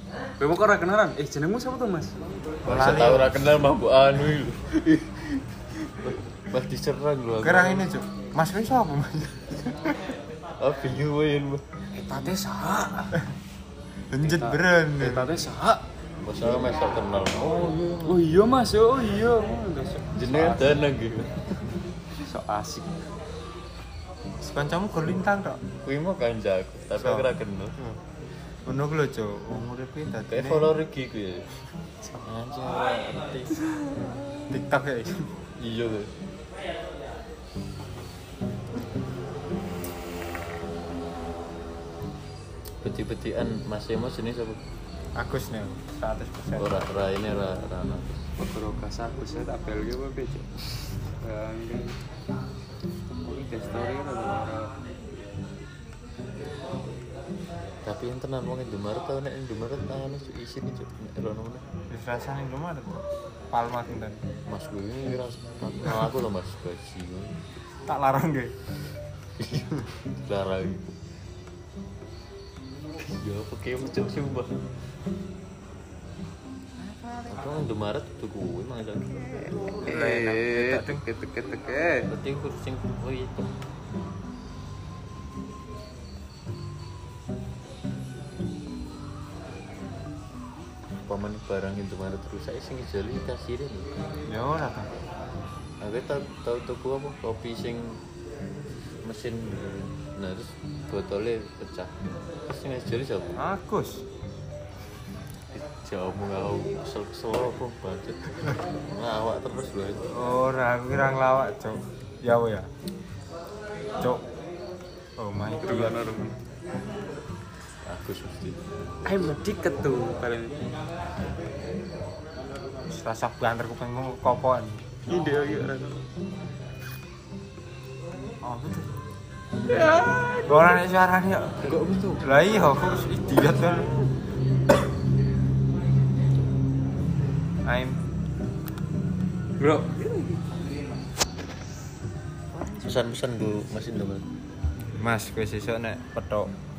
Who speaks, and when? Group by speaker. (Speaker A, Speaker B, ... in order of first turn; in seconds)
Speaker A: 0.4-2.1, 11.9-13.1, 14.2-15.8, 17.4-20.8, 22.1-23.0, 48.4-52.0, 53.1-54.7, 79.8-82.1, 115.6-116.3, 119.0-120.6, 125.1-126.0, 129.7-130.5, 139.6-140.6, 142.6-142.9
Speaker B: 2.6-3.7, 7.4-10.0, 14.1-15.3, 24.4-25.6, 26.9-28.0, 28.6-30.7, 34.5-35.2, 45.2-47.1, 61.9-64.2, 67.8-68.5, 76.8-77.6, 79.8-81.0, 94.3-94.9, 103.4-104.0, 110.1-112.7, 115.2-116.0, 122.9-124.8, 128.4-128.9, 130.4-133.9, 137.6-138.0, 145.0-146.5
Speaker C: 2.7-7.9, 10.6-11.6, 16.2-18.2, 20.1-21.4, 25.8-27.8, 30.3-31.5, 32.1-34.0, 35.6-36.1, 42.8-44.6, 46.5-48.2, 57.8-61.6, 64.5-67.3, 69.4-70.9, 73.0-74.5, 77.3-79.8, 82.1-83.5, 91.1-93.9, 95.8-98.0, 99.0-101.9, 102.5-103.4, 105.5-110.0, 117.8-119.3, 131.6-132.2, 142.8-144.2